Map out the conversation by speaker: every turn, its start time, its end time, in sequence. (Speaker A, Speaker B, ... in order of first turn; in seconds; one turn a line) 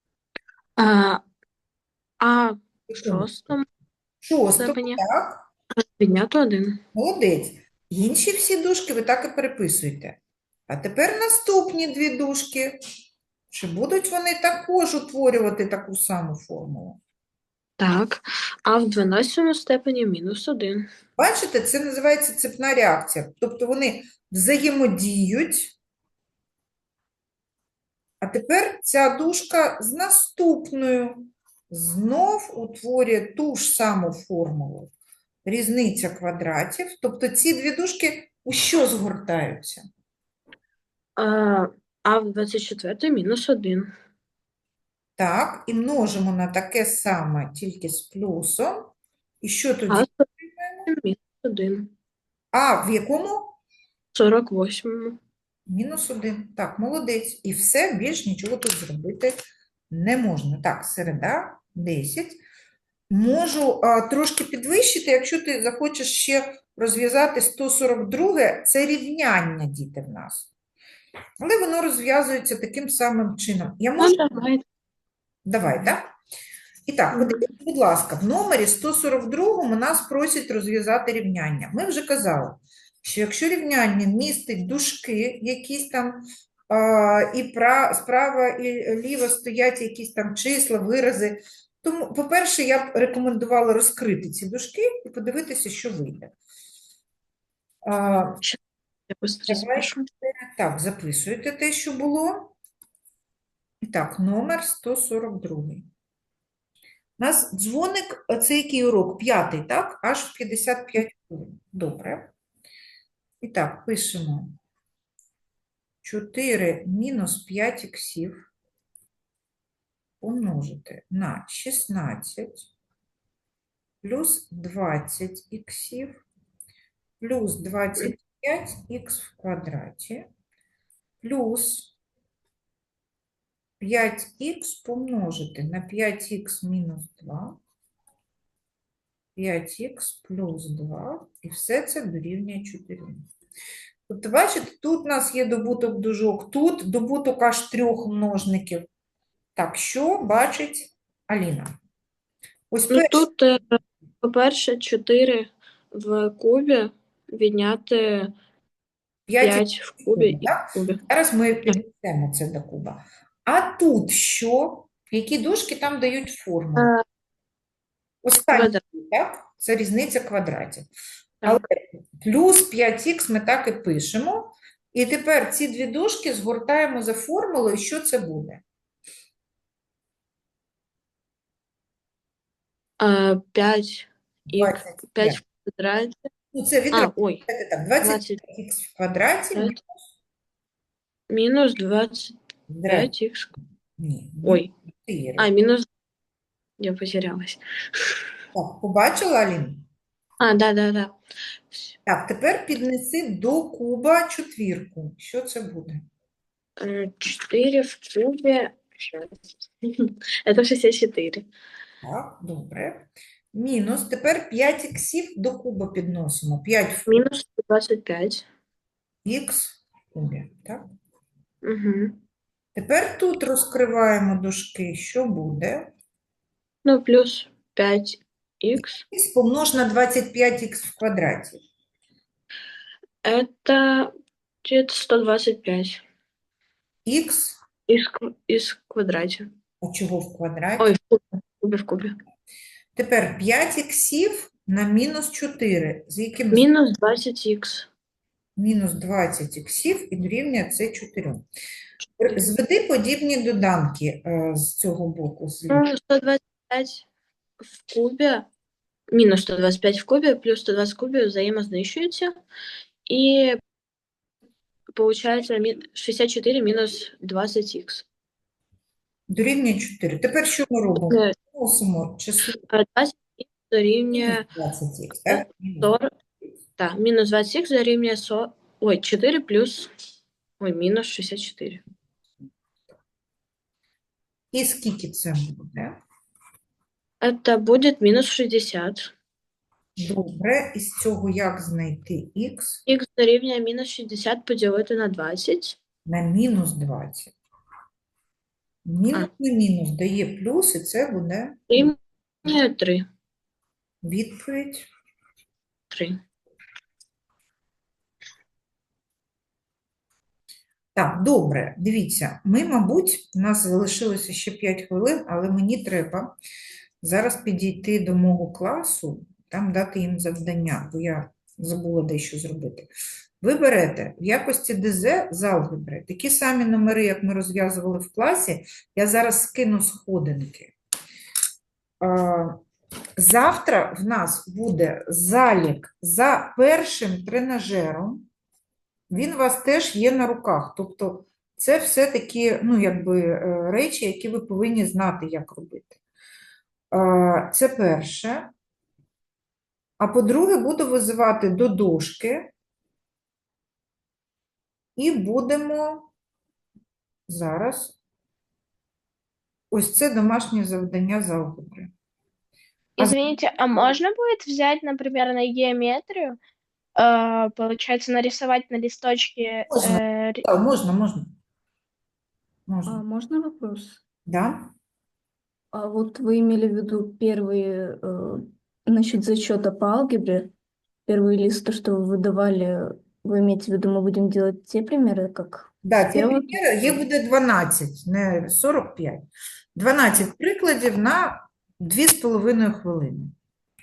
Speaker A: 0.8-1.2
Speaker A: 2.2-3.6
Speaker B: 2.9-3.5
Speaker B: 4.2-5.5
Speaker A: 4.6-5.0
Speaker A: 5.8-6.8
Speaker B: 6.9-12.8
Speaker B: 13.5-17.0
Speaker A: 17.8-20.9
Speaker B: 21.2-25.7
Speaker B: 28.2-34.9
Speaker B: 35.4-39.9
Speaker A: 41.2-43.9
Speaker B: 45.2-50.9
Speaker A: 49.9-50.2
Speaker A: 50.9-51.9
Speaker B: 52.5-53.5
Speaker A: 54.1-55.2
Speaker B: 55.7-62.4
Speaker B: 63.1-70.5
Speaker B: 71.4-74.2
Speaker A: 74.0-74.6
Speaker B: 75.4-76.1
Speaker B: 76.9-96.3
Speaker A: 77.2-77.4
Speaker B: 97.8-98.4
Speaker A: 99.1-100.0
Speaker B: 99.5-102.5
Speaker B: 103.8-105.9
Speaker B: 107.2-112.3
Speaker B: 113.4-114.6
Speaker B: 116.0-118.5
Speaker B: 120.2-122.7
Speaker B: 124.0-126.2
Speaker B: 127.2-130.3
Speaker B: 131.2-131.9
Speaker B: 133.8-137.6
Speaker B: 139.3-143.3
Speaker B: 144.1-148.9
Speaker B: 149.6-151.8
Speaker B: 152.7-153.3
Speaker A: 152.9-158.3
Speaker B: 159.3-166.9
Speaker A: 159.4-161.0
Speaker A: 166.8-167.0
Speaker B: 168.2-170.9
Speaker A: 168.5-168.8
Speaker B: 171.4-178.6
Speaker A: 183.0-186.3
Speaker B: 184.5-185.4
Speaker B: 186.5-189.8
Speaker A: 186.9-187.4
Speaker A: 188.0-188.4
Speaker A: 191.3-192.3
Speaker B: 192.7-193.1
Speaker A: 192.8-193.5
Speaker B: 194.0-195.5
Speaker A: 194.4-194.7
Speaker A: 195.4-195.8
Speaker A: 196.8-198.3
Speaker B: 198.5-199.8
Speaker A: 200.4-201.2
Speaker B: 202.1-206.1
Speaker A: 206.8-211.5
Speaker B: 212.0-217.2
Speaker A: 217.1-218.4
Speaker B: 219.2-220.9
Speaker A: 221.6-222.2
Speaker B: 222.7-225.9
Speaker A: 226.8-229.0
Speaker B: 228.8-231.6
Speaker A: 233.2-234.1
Speaker A: 234.6-236.0
Speaker B: 237.0-237.6
Speaker A: 237.9-239.5
Speaker B: 239.8-240.9
Speaker A: 240.8-242.1
Speaker B: 242.9-246.7
Speaker A: 246.5-247.9
Speaker B: 248.6-251.4
Speaker B: 252.2-255.8
Speaker A: 255.7-257.0
Speaker A: 257.7-258.5
Speaker A: 259.1-262.4
Speaker A: 263.1-263.6
Speaker A: 264.9-268.1
Speaker B: 269.3-272.6
Speaker A: 271.1-271.3
Speaker A: 272.7-274.5
Speaker B: 274.1-275.9
Speaker A: 275.3-276.1
Speaker A: 276.8-279.9
Speaker A: 280.6-281.8
Speaker B: 284.5-286.0
Speaker A: 287.2-289.1
Speaker B: 290.0-292.8
Speaker A: 292.9-295.8
Speaker B: 296.1-297.3
Speaker B: 298.8-301.8
Speaker A: 301.7-303.1
Speaker B: 304.0-304.9
Speaker A: 305.9-306.2
Speaker B: 310.9-316.3
Speaker B: 317.0-322.9
Speaker B: 323.4-330.7
Speaker B: 332.0-332.6
Speaker B: 333.2-338.2
Speaker B: 339.1-346.0
Speaker B: 346.9-348.5
Speaker B: 350.0-352.5
Speaker B: 354.9-356.1
Speaker B: 357.3-357.9
Speaker B: 359.7-361.9
Speaker B: 363.0-363.2
Speaker C: 363.0-366.4
Speaker C: 366.9-370.4
Speaker B: 369.7-371.3
Speaker B: 372.7-373.0
Speaker D: 372.8-374.0
Speaker B: 374.2-374.7
Speaker D: 375.7-380.5
Speaker D: 381.1-386.8
Speaker B: 385.8-393.3